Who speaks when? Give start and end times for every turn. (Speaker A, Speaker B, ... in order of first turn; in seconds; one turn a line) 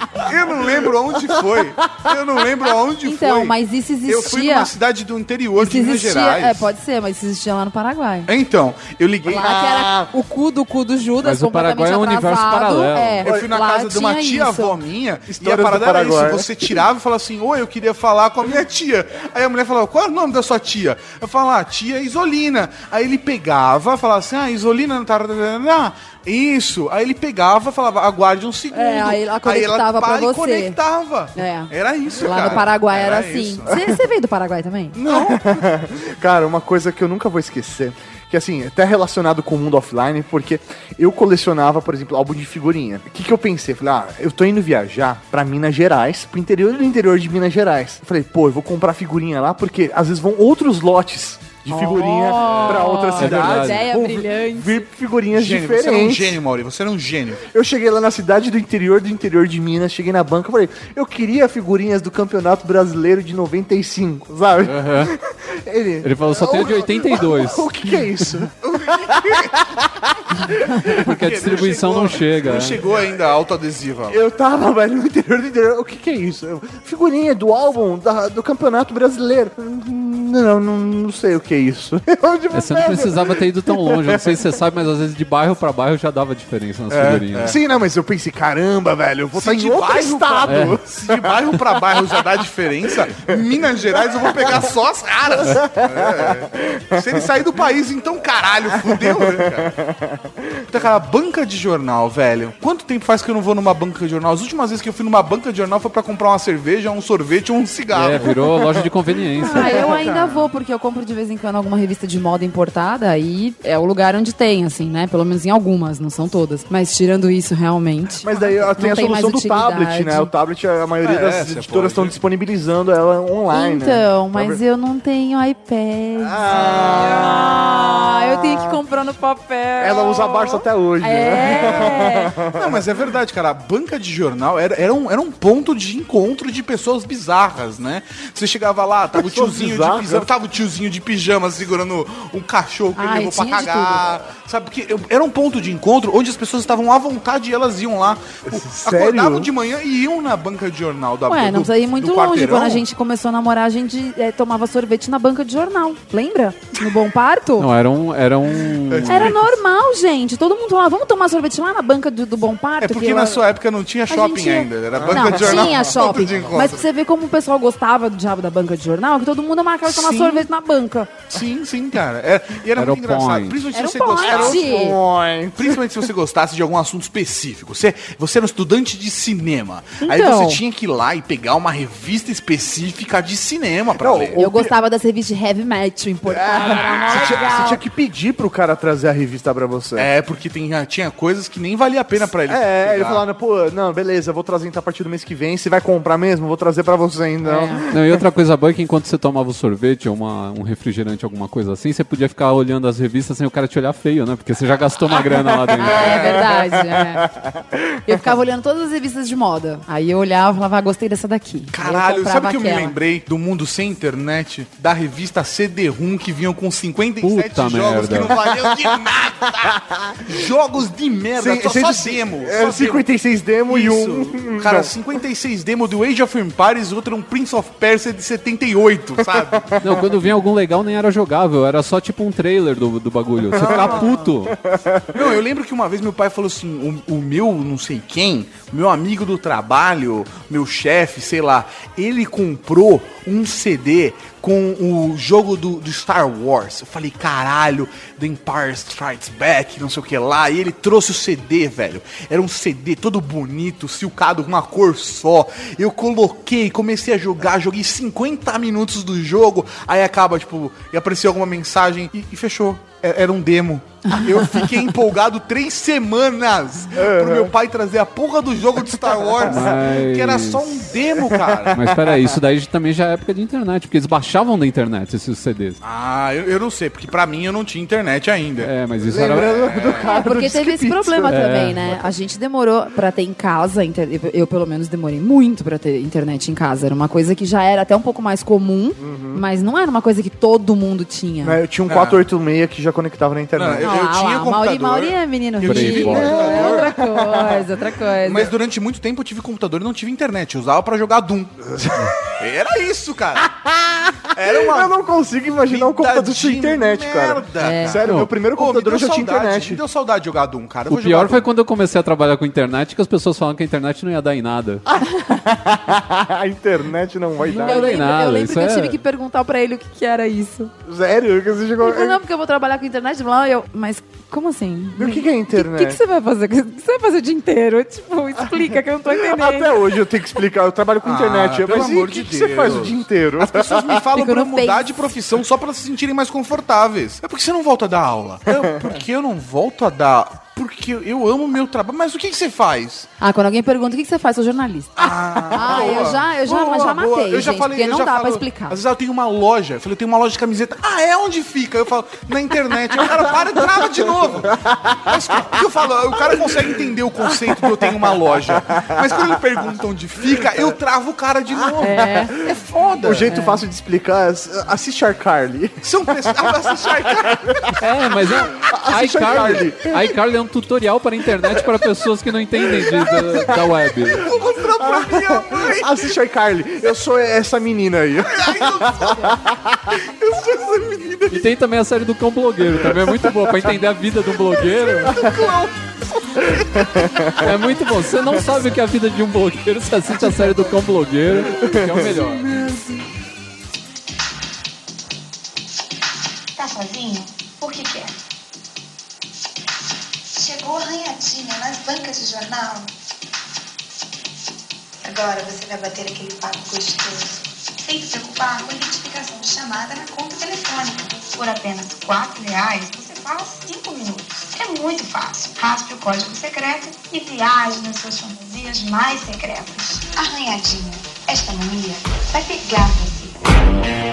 Speaker A: 0.2-6.7
Speaker B: 0.2-2.1
Speaker C: 3.0-4.7
Speaker C: 5.6-8.3
Speaker A: 8.3-9.4
Speaker B: 9.2-10.1
Speaker C: 9.3-14.8
Speaker D: 11.2-13.3
Speaker A: 13.2-33.8
Speaker B: 15.3-16.8
Speaker C: 28.7-30.8
Speaker C: 31.4-35.0
Speaker A: 35.0-35.7
Speaker B: 35.1-56.4
Speaker C: 51.7-54.9
Speaker D: 53.2-53.8
Speaker A: 55.3-57.5
Speaker B: 57.5-71.1
Speaker D: 64.6-65.1
Speaker D: 66.0-67.9
Speaker A: 68.6-69.6
Speaker A: 70.9-74.2
Speaker D: 71.0-72.8
Speaker B: 74.1-84.6
Speaker D: 82.5-87.5
Speaker A: 86.9-87.6
Speaker B: 87.4-91.5
Speaker A: 89.3-99.8
Speaker D: 90.5-90.8
Speaker B: 94.1-94.6
Speaker B: 95.3-97.3
Speaker B: 98.7-100.8
Speaker A: 100.7-108.8
Speaker D: 107.9-109.9
Speaker C: 109.4-120.3
Speaker B: 109.5-110.4
Speaker B: 118.2-124.6
Speaker A: 121.0-122.2
Speaker C: 123.5-132.3
Speaker B: 126.2-128.8
Speaker B: 129.8-132.8
Speaker A: 131.6-152.8
Speaker B: 139.1-140.3
Speaker C: 143.0-144.1
Speaker B: 148.5-149.5
Speaker C: 151.3-157.7
Speaker D: 157.6-159.5
Speaker A: 158.9-159.4
Speaker C: 159.1-163.4
Speaker A: 162.8-166.8
Speaker C: 164.1-171.1
Speaker B: 165.0-165.8
Speaker A: 169.9-170.5
Speaker A: 171.3-174.7
Speaker D: 172.8-173.6
Speaker C: 173.7-175.0
Speaker B: 174.3-176.1
Speaker A: 175.6-184.4
Speaker C: 180.0-180.6
Speaker B: 184.0-184.7
Speaker C: 184.4-187.8
Speaker B: 186.3-190.1
Speaker A: 186.7-187.5
Speaker A: 190.0-193.2
Speaker B: 192.5-198.2
Speaker C: 197.4-197.8
Speaker D: 197.9-206.4
Speaker B: 205.2-208.2
Speaker C: 205.8-207.3
Speaker C: 208.1-212.9
Speaker A: 211.7-223.1
Speaker D: 217.2-218.4
Speaker B: 218.4-218.9
Speaker B: 219.6-220.3
Speaker B: 221.3-224.9
Speaker A: 223.7-229.7
Speaker B: 229.2-230.2
Speaker D: 229.8-234.6
Speaker B: 233.5-235.4
Speaker A: 233.5-234.1
Speaker A: 235.1-271.9
Speaker B: 267.0-267.5
Speaker B: 269.4-269.7
Speaker D: 269.5-270.8
Speaker B: 271.2-272.2
Speaker D: 271.7-275.8
Speaker A: 275.8-278.7
Speaker D: 278.6-279.6
Speaker B: 279.0-281.4
Speaker A: 279.3-280.1
Speaker C: 280.0-291.6
Speaker D: 281.3-281.8
Speaker B: 289.0-289.4
Speaker B: 291.4-294.0
Speaker A: 291.9-292.2
Speaker A: 293.6-296.9
Speaker C: 293.8-298.5
Speaker D: 295.6-296.5
Speaker B: 295.9-297.7
Speaker A: 298.2-303.5
Speaker B: 303.4-309.8
Speaker A: 304.3-304.9
Speaker A: 305.7-311.5
Speaker C: 307.6-308.0
Speaker D: 310.9-314.8
Speaker B: 314.9-318.0
Speaker C: 317.5-320.7
Speaker D: 317.5-319.0
Speaker B: 320.9-322.2
Speaker C: 321.8-329.8
Speaker B: 325.0-326.0
Speaker B: 329.1-334.0
Speaker A: 331.0-343.1
Speaker C: 334.1-335.0
Speaker B: 338.5-338.8
Speaker C: 343.2-348.8
Speaker A: 345.0-363.3
Speaker B: 345.6-346.1
Speaker B: 354.5-355.2
Speaker B: 356.1-356.8
Speaker B: 357.3-359.4
Speaker B: 361.8-362.2
Speaker C: 361.8-362.4
Speaker B: 363.0-367.8
Speaker C: 363.3-363.6
Speaker A: 365.8-367.8
Speaker D: 367.8-374.2
Speaker B: 368.5-370.2
Speaker B: 372.7-373.8
Speaker A: 374.1-376.1
Speaker B: 374.7-380.0
Speaker A: 378.2-379.4
Speaker A: 380.0-381.4
Speaker D: 381.3-385.2
Speaker A: 384.5-387.3
Speaker B: 385.1-385.6
Speaker B: 386.4-387.5
Speaker D: 387.4-392.5
Speaker B: 391.5-392.9
Speaker E: 396.6-398.2
Speaker E: 400.3-402.9
Speaker E: 405.0-423.4